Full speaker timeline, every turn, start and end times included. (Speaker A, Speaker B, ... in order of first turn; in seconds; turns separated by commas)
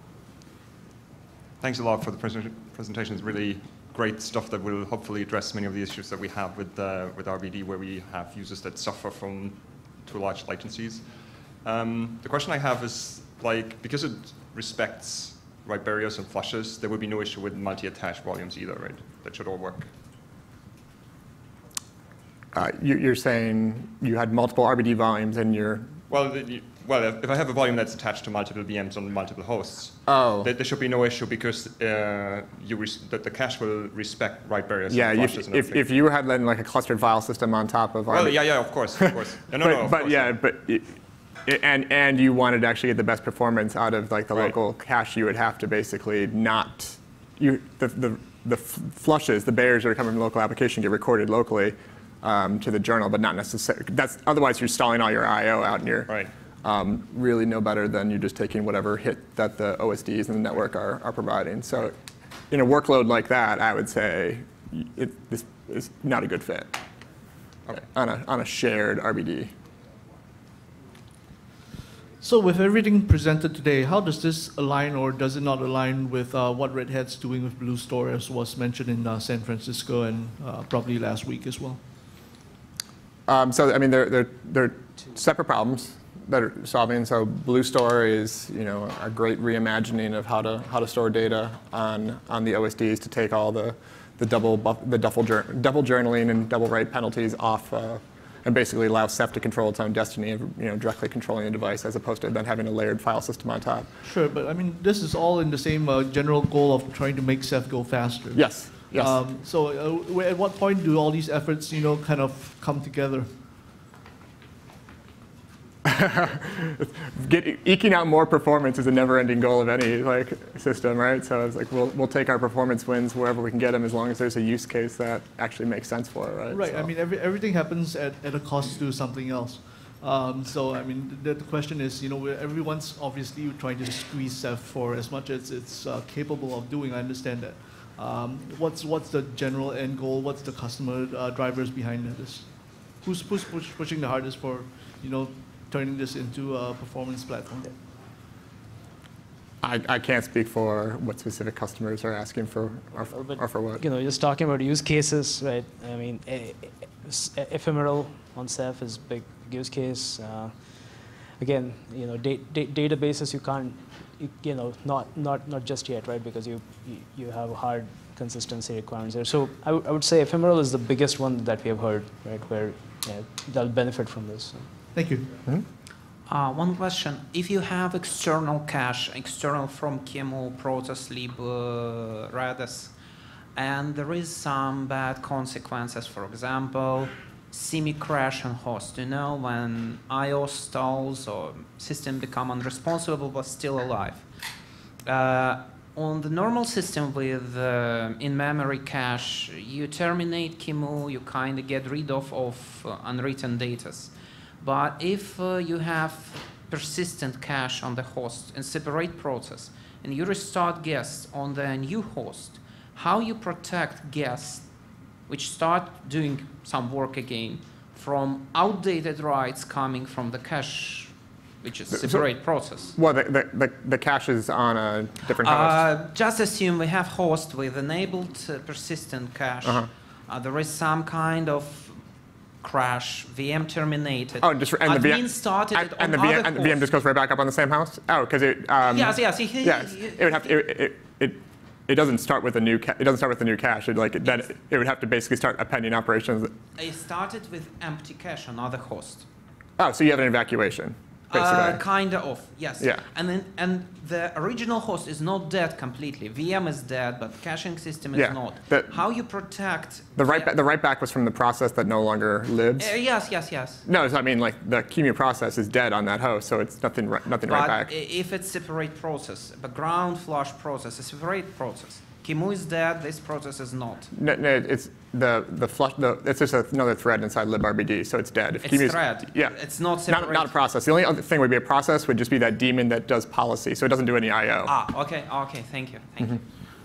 Speaker A: 1.6-19.9, Speaker B: 22.5-26.0, Speaker A: 26.1-35.9, Speaker B: 30.1-30.5, Speaker B: 34.9-61.9, Speaker A: 38.1-40.3, Speaker B: 62.5-66.8, Speaker B: 67.7-69.5, Speaker C: 72.2-81.8, Speaker B: 83.3-103.9, Speaker C: 104.0-113.3, Speaker B: 108.3-109.2, Speaker B: 115.8-126.9, Speaker C: 126.5-147.7, Speaker B: 149.6-153.8, Speaker D: 153.1-160.5, Speaker D: 161.4-174.7, Speaker C: 174.9-175.4, Speaker E: 176.3-182.9, Speaker E: 183.5-194.3, Speaker E: 195.1-214.7, Speaker E: 215.3-222.9, Speaker B: 221.9-225.8, Speaker E: 225.3-232.0, Speaker B: 229.6-229.9, Speaker E: 232.6-236.8, Speaker B: 234.4-246.5, Speaker E: 238.8-240.4, Speaker E: 246.8-249.3, Speaker B: 249.8-251.8, Speaker E: 251.3-260.5, Speaker B: 258.1-259.0, Speaker B: 260.1-262.9, Speaker E: 262.8-263.8, Speaker B: 263.9-267.9, Speaker E: 267.5-274.1, Speaker B: 274.1-279.5, Speaker E: 278.6-280.5, Speaker B: 280.1-284.7, Speaker E: 284.6-286.4